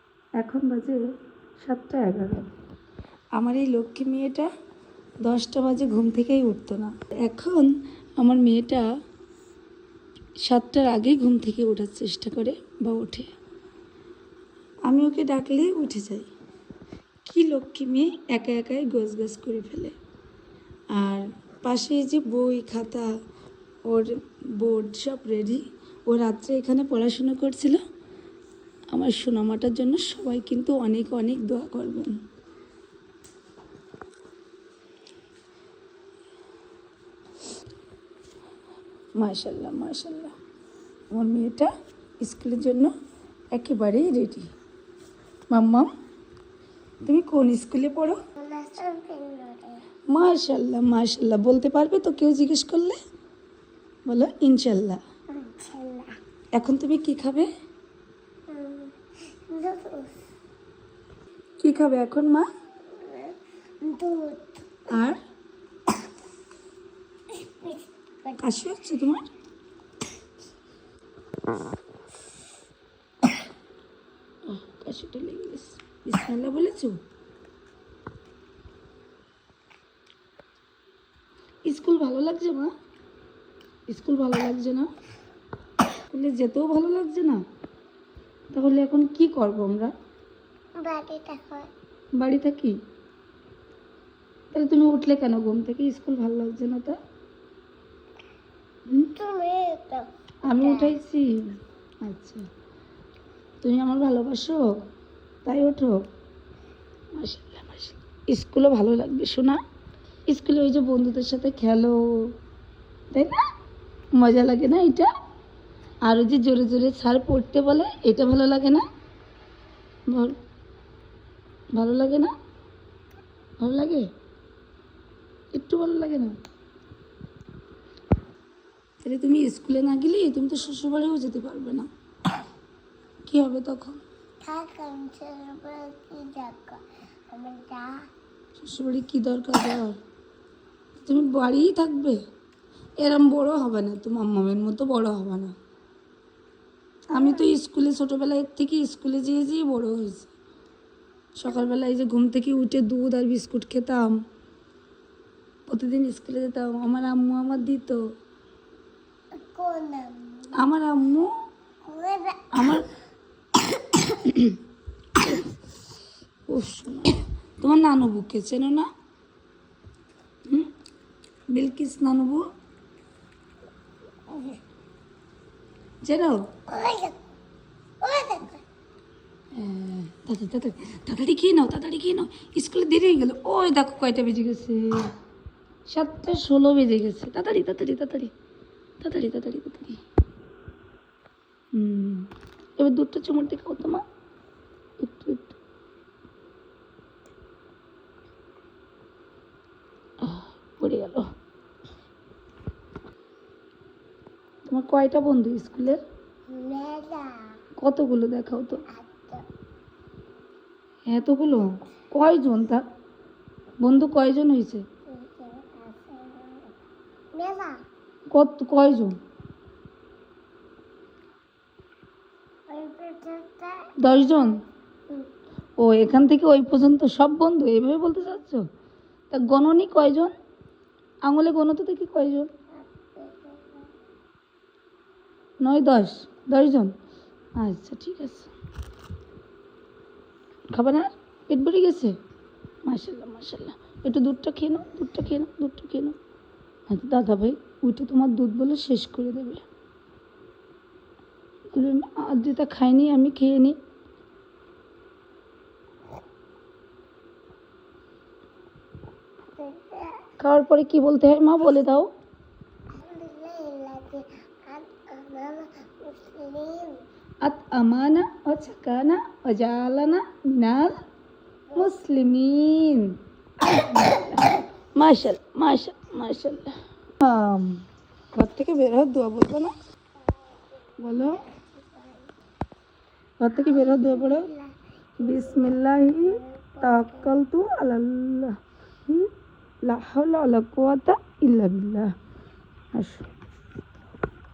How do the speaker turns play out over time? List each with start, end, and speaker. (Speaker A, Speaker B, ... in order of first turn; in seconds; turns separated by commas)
Speaker A: 0.4-1.0, Speaker A: 1.6-2.5, Speaker A: 3.4-4.5, Speaker A: 5.2-8.9, Speaker A: 10.4-13.3, Speaker A: 14.9-16.3, Speaker A: 17.3-19.9, Speaker A: 21.0-23.1, Speaker A: 23.9-27.8, Speaker A: 28.9-32.1, Speaker A: 39.2-40.3, Speaker A: 41.1-41.7, Speaker A: 42.2-42.9, Speaker A: 43.5-44.5, Speaker A: 45.5-45.9, Speaker A: 47.0-48.2, Speaker B: 48.4-49.8, Speaker A: 50.1-53.0, Speaker A: 54.1-55.0, Speaker B: 55.3-56.1, Speaker A: 56.5-57.5, Speaker B: 58.5-60.2, Speaker A: 61.6-62.5, Speaker B: 62.9-64.9, Speaker A: 64.9-65.2, Speaker B: 67.3-68.4, Speaker A: 68.4-69.2, Speaker A: 74.5-77.0, Speaker A: 81.7-82.7, Speaker A: 83.9-84.9, Speaker A: 86.1-87.4, Speaker A: 88.5-89.9, Speaker B: 90.8-91.7, Speaker A: 92.2-92.8, Speaker A: 94.5-97.0, Speaker B: 99.1-101.0, Speaker A: 100.5-102.5, Speaker A: 103.6-104.8, Speaker A: 105.5-106.0, Speaker A: 107.1-109.6, Speaker A: 110.3-112.3, Speaker A: 113.1-113.5, Speaker A: 114.2-115.1, Speaker A: 116.0-118.8, Speaker A: 120.1-120.4, Speaker A: 121.8-122.3, Speaker A: 123.6-124.1, Speaker A: 125.5-126.3, Speaker A: 129.0-131.9, Speaker A: 133.3-134.0, Speaker B: 134.4-138.0, Speaker A: 138.6-140.0, Speaker A: 141.0-142.2, Speaker A: 143.0-145.5, Speaker A: 147.1-150.3, Speaker B: 147.2-147.5, Speaker A: 151.4-154.2, Speaker A: 155.7-158.0, Speaker B: 159.4-160.6, Speaker A: 160.6-161.3, Speaker B: 161.8-162.8, Speaker A: 162.5-162.9, Speaker A: 163.6-164.6, Speaker A: 165.2-165.4, Speaker A: 166.5-168.9, Speaker A: 171.5-172.4, Speaker A: 176.1-176.5, Speaker B: 176.7-177.2, Speaker B: 178.0-178.6, Speaker A: 179.5-185.1, Speaker A: 185.9-188.3, Speaker A: 189.0-190.0, Speaker A: 191.7-194.0, Speaker A: 195.0-195.6, Speaker A: 200.2-201.3, Speaker A: 204.7-206.0, Speaker B: 206.5-207.6, Speaker A: 207.8-208.8, Speaker B: 208.9-209.4, Speaker A: 211.1-212.8, Speaker A: 213.8-214.8, Speaker B: 215.1-216.7, Speaker B: 217.3-217.8, Speaker A: 218.3-219.2, Speaker B: 222.7-225.3, Speaker A: 224.0-224.6, Speaker A: 225.8-228.7, Speaker A: 229.3-230.3, Speaker A: 231.3-232.5, Speaker B: 232.8-233.8, Speaker A: 235.6-236.9, Speaker A: 237.6-238.5, Speaker A: 240.7-242.2, Speaker A: 242.8-246.2, Speaker A: 246.9-249.6, Speaker A: 251.7-253.8, Speaker B: 259.6-260.3, Speaker A: 260.4-262.1, Speaker B: 262.9-267.0, Speaker A: 267.4-271.0, Speaker B: 271.7-271.9, Speaker A: 271.8-279.8, Speaker B: 280.6-282.3, Speaker A: 281.0-281.4, Speaker A: 283.4-284.5, Speaker B: 283.6-287.4, Speaker A: 285.2-289.3, Speaker A: 289.9-292.1, Speaker A: 292.9-293.3